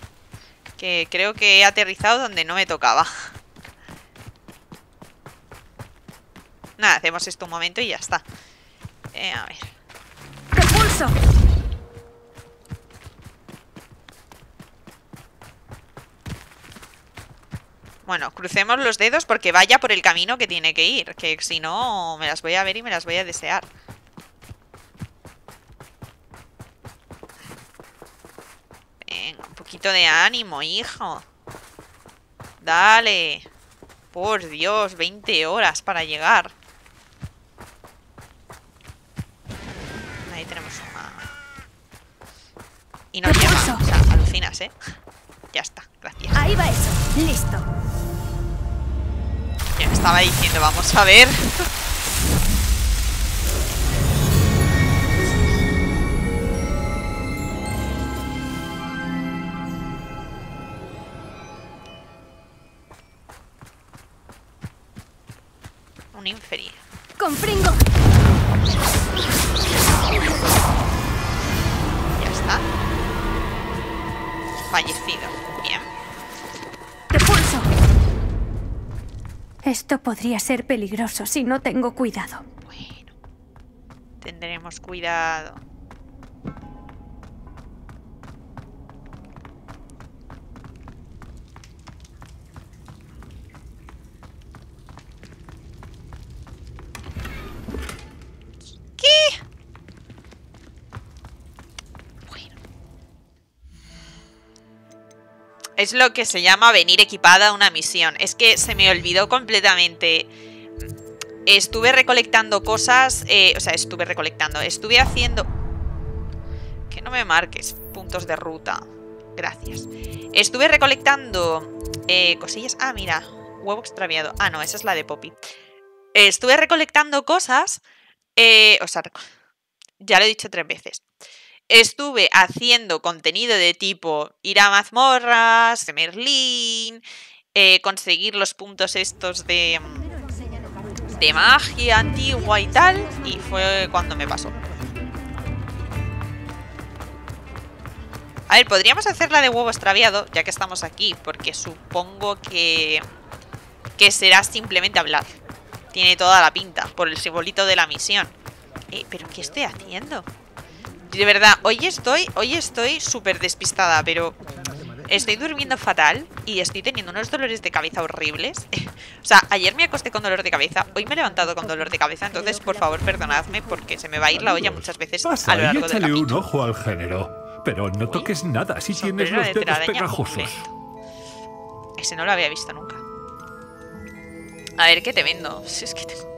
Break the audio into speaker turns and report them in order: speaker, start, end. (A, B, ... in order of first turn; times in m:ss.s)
0:00.8-0:03.2 A
0:06.8-0:08.2 A
0:09.1-0:09.7 A
0:10.5-0:11.2 B
0:18.1-0:23.7 A
0:29.0-0:31.2 A
0:32.6-0:33.4 A
0:34.1-0:36.5 A
0:40.3-0:41.3 A
0:43.1-0:44.8 A
0:43.2-0:43.8 B
0:45.5-0:46.4 A
0:46.4-0:47.7 B
0:49.8-0:51.7 A
1:06.1-1:06.8 A
1:07.2-1:07.8 B
1:12.2-1:12.7 A
1:14.7-1:15.9 A
1:17.1-1:17.7 B
1:19.6-1:22.4 B
1:22.7-1:23.1 A
1:24.2-1:25.6 A
1:39.0-1:39.4 A
1:42.3-1:42.5 A
1:45.8-1:50.3 A
1:51.5-1:55.5 A
1:56.9-1:58.8 A
1:59.4-2:05.4 A
2:06.2-2:07.8 A
2:08.4-2:09.2 A
2:10.0-2:11.0 A
2:11.7-2:17.0 A
2:17.6-2:20.1 A
2:21.2-2:24.6 A
2:28.5-2:33.0 A
2:34.0-2:35.3 A
2:35.9-2:38.3 A
2:38.9-2:40.3 A
2:41.1-2:44.4 A
2:45.0-2:56.4 A
2:54.4-3:00.7 C
2:58.0-2:58.3 A
2:59.0-3:00.7 A
3:02.0-3:03.0 A
3:04.8-3:06.2 A